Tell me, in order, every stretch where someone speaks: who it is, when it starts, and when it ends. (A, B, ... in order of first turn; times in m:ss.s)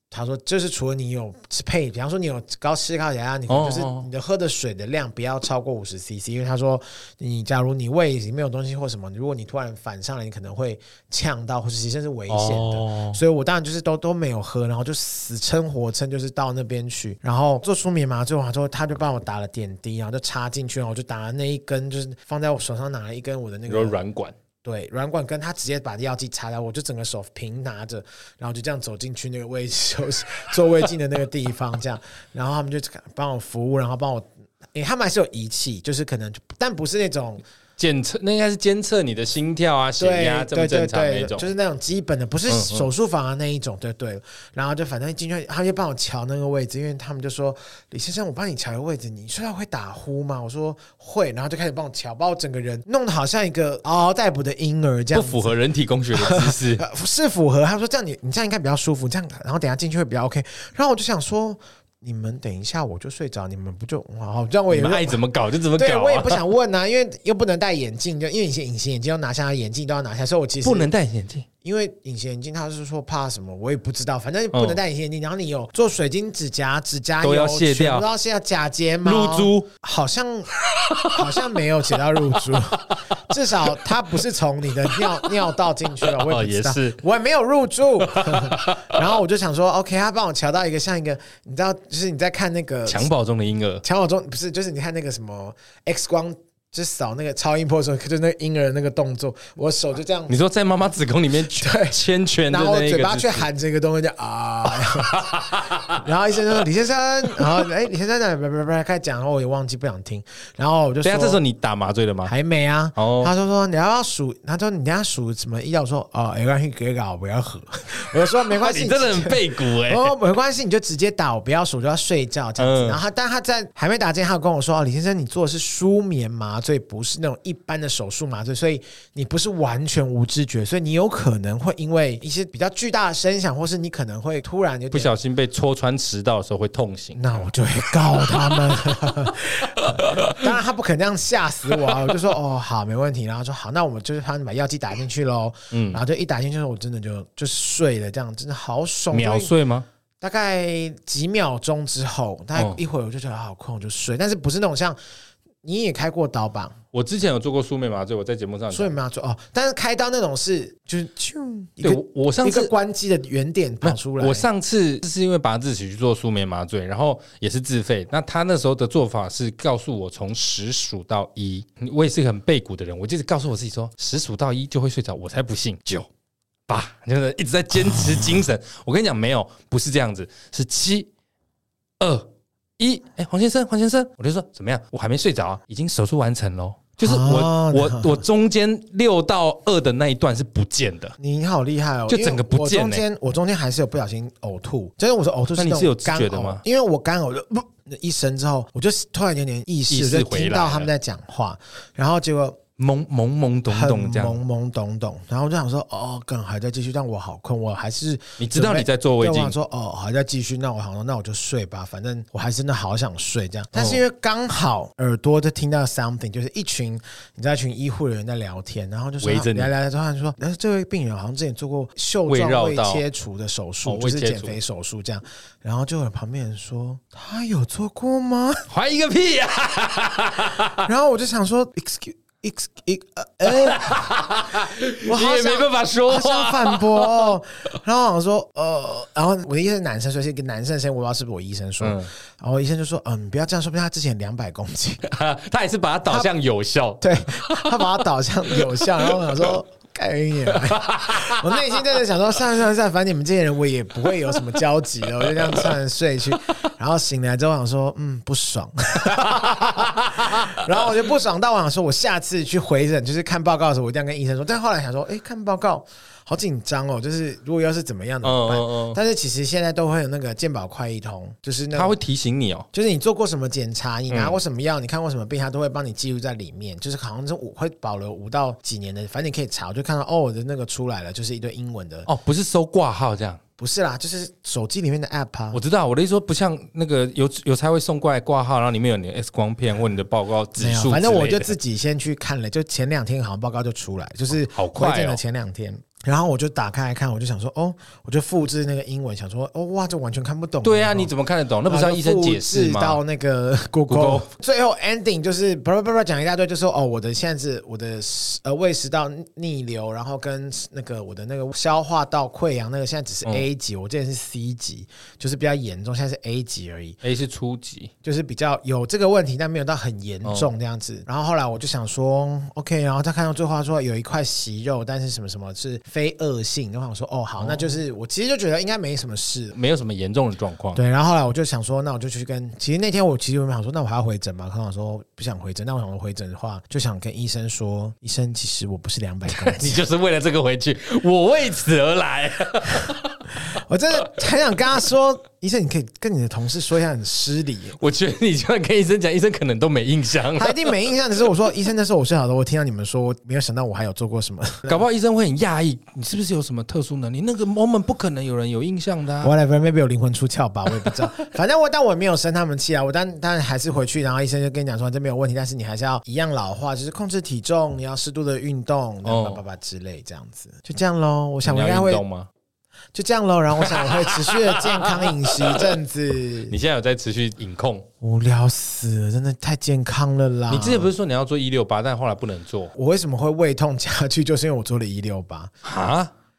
0:00.1-0:24.0 A
0:03.5-0:04.1 B
0:12.3-0:13.2 B
0:23.7-0:24.4 B
0:24.6-0:37.4 A
0:37.8-0:41.5 B
0:40.0-0:55.6 A
0:42.5-0:42.9 B
0:55.1-0:56.8 B
0:56.1-1:05.2 A
1:04.7-1:06.4 B
1:05.7-1:10.9 A
1:10.6-1:11.5 B
1:11.6-1:20.5 A
1:14.5-1:14.8 B
1:17.2-1:18.1 B
1:19.0-1:19.7 B
1:20.7-1:22.8 B
1:21.0-1:33.1 A
1:24.8-1:25.4 B
1:25.9-1:27.0 B
1:28.0-1:29.1 B
1:32.9-1:33.8 B
1:33.8-1:40.3 A
1:40.3-1:43.5 B
1:41.4-1:51.4 A
1:44.7-1:46.0 B
1:51.0-1:52.3 B
1:52.3-2:15.2 A
1:53.0-1:53.3 B
1:58.2-2:00.1 B
2:02.6-2:03.0 B
2:14.9-2:17.5 B
2:17.2-2:29.5 A
2:18.2-2:18.6 B
2:19.8-2:20.5 B
2:21.8-2:22.1 B
2:25.7-2:26.0 B
2:29.1-2:29.8 B
2:30.2-2:35.0 A
2:32.6-2:32.8 B
2:35.6-2:36.8 A
2:36.9-2:39.0 B
2:38.7-2:44.5 A
2:41.8-2:42.7 B
2:43.8-2:56.1 B
2:56.7-3:01.1 B
3:02.0-3:11.2 B
3:07.0-3:08.2 A
3:11.2-3:22.6 A
3:12.1-3:13.0 B
3:15.6-3:16.6 B
3:19.9-3:20.9 B
3:22.8-3:24.4 B
3:23.7-3:48.7 A
3:28.4-3:29.6 B
3:33.8-3:34.0 B
3:39.2-3:39.7 B
3:42.3-3:43.0 B
3:43.8-3:44.6 B
3:48.7-3:50.9 B
3:50.8-4:05.0 A
3:53.5-3:57.3 B
4:01.8-4:02.1 B
4:05.1-4:08.0 B
4:07.0-4:32.0 A
4:08.5-4:09.5 B
4:10.5-4:11.8 B
4:15.3-4:15.6 B
4:19.0-4:20.8 B
4:28.2-4:29.0 B
4:31.8-4:32.7 B
4:32.7-4:42.1 A
4:34.1-4:34.4 B
4:42.1-4:43.4 B
4:43.6-4:45.6 A
4:45.5-4:51.5 B
4:50.6-5:01.1 A
4:54.5-4:55.2 B
5:00.6-5:03.0 B
5:01.7-5:17.0 A
5:03.9-5:04.3 B
5:17.0-5:17.9 B
5:18.0-5:29.6 A
5:20.2-5:20.5 B
5:27.4-5:27.8 B
5:29.5-5:30.8 B
5:30.8-5:39.8 A
5:39.3-5:43.5 B
5:43.5-5:47.8 A
5:47.8-5:50.9 B
5:50.4-5:54.8 A
5:54.7-5:59.3 B
5:59.2-6:12.0 A
6:09.0-6:09.4 B
6:11.4-6:12.3 B
6:12.9-6:16.5 A
6:13.6-6:15.7 B
6:16.5-6:17.9 B
6:18.0-6:20.9 A
6:20.5-6:22.7 B
6:22.8-6:25.5 A
6:25.6-6:26.1 B